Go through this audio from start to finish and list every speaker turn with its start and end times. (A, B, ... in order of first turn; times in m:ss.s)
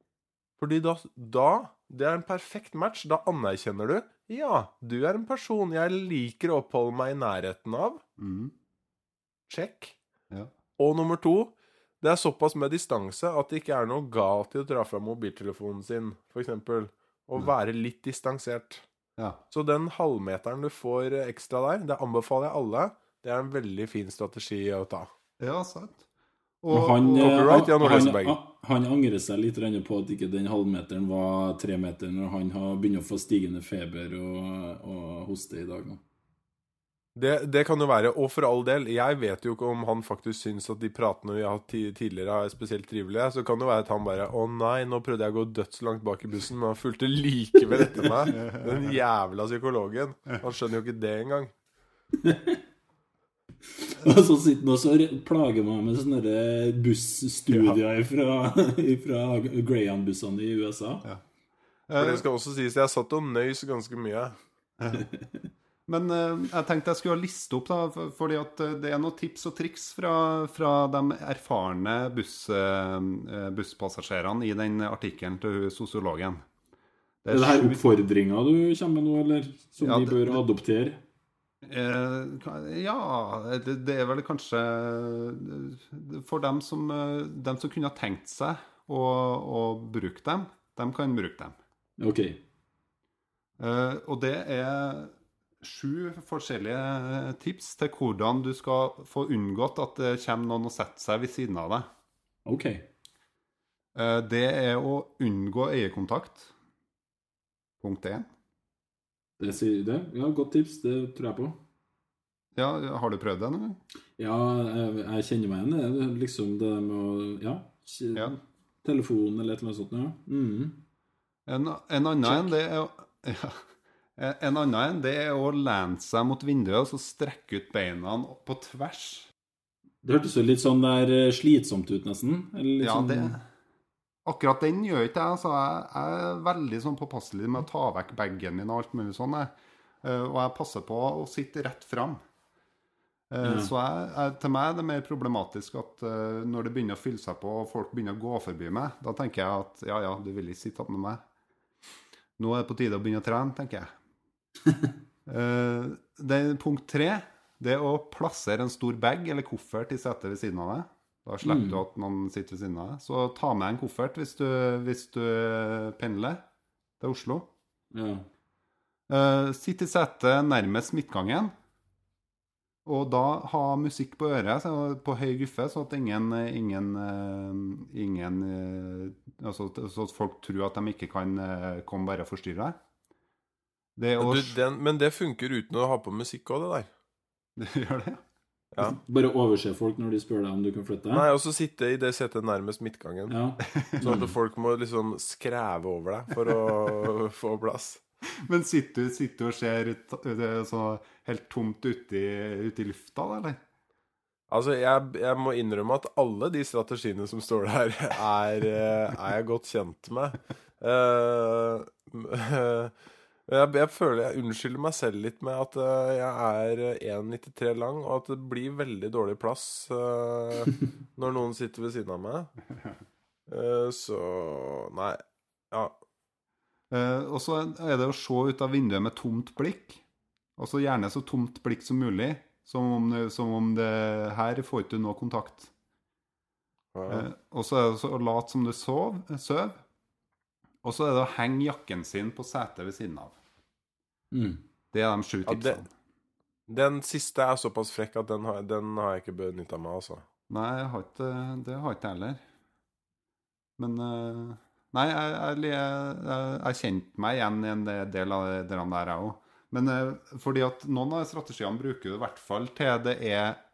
0:00.6-0:08.0 A
0:08.2-0:08.5 B
0:09.5-0:10.0 A
0:10.8-0:18.8 A
0:19.5-0:25.1 A
0:25.4-0:26.0 B
0:26.6-0:27.7 B
0:26.7-0:36.0 C
0:27.2-0:28.4 A
0:37.2-0:51.5 A
0:48.3-0:48.9 B
0:52.1-0:52.6 C
0:53.8-1:01.0 C
0:57.5-0:57.8 B
1:01.9-1:02.2 B
1:02.0-1:04.4 A
1:04.8-1:05.0 B
1:04.9-1:05.4 C
1:05.9-1:16.4 B
1:17.2-1:17.8 B
1:17.3-1:21.0 C
1:19.8-1:20.4 B
1:21.6-1:31.6 B
1:32.0-1:32.4 C
1:33.6-1:41.9 B
1:42.4-1:42.9 C
1:43.9-1:46.5 B
1:47.8-1:48.3 B
1:49.4-1:51.6 C
1:52.6-1:53.8 B
1:54.2-2:00.8 C
2:01.5-2:03.6 B
2:02.2-2:02.5 C
2:04.2-2:09.3 B
2:10.0-2:13.4 C
2:12.8-2:13.4 B
2:14.2-2:19.5 B
2:20.0-2:22.2 B
2:23.3-2:31.2 B
2:23.4-2:23.7 C
2:32.4-2:33.9 B
2:35.3-2:46.4 B
2:41.4-2:41.8 C
2:47.0-2:47.5 B
2:47.9-2:48.3 C
2:49.1-2:51.5 B
2:52.8-3:02.8 B
3:04.0-3:04.5 B
3:04.2-3:06.9 A
3:07.6-3:08.2 B
3:08.8-3:11.3 C
3:11.1-3:13.4 A
3:13.3-3:14.3 C
3:13.7-3:14.2 B
3:14.0-3:18.0 A
3:18.4-3:23.6 B
3:24.5-3:32.9 A
3:33.5-3:42.5 A
3:43.5-3:46.0 A
3:46.9-3:50.0 B
3:50.6-3:55.7 B
3:56.9-3:57.3 A
3:57.1-3:59.8 B
4:00.8-4:03.3 B
4:04.3-4:04.6 C
4:04.9-4:05.9 B
4:05.4-4:05.8 A
4:06.7-4:10.2 A
4:10.5-4:12.4 B
4:13.8-4:23.6 B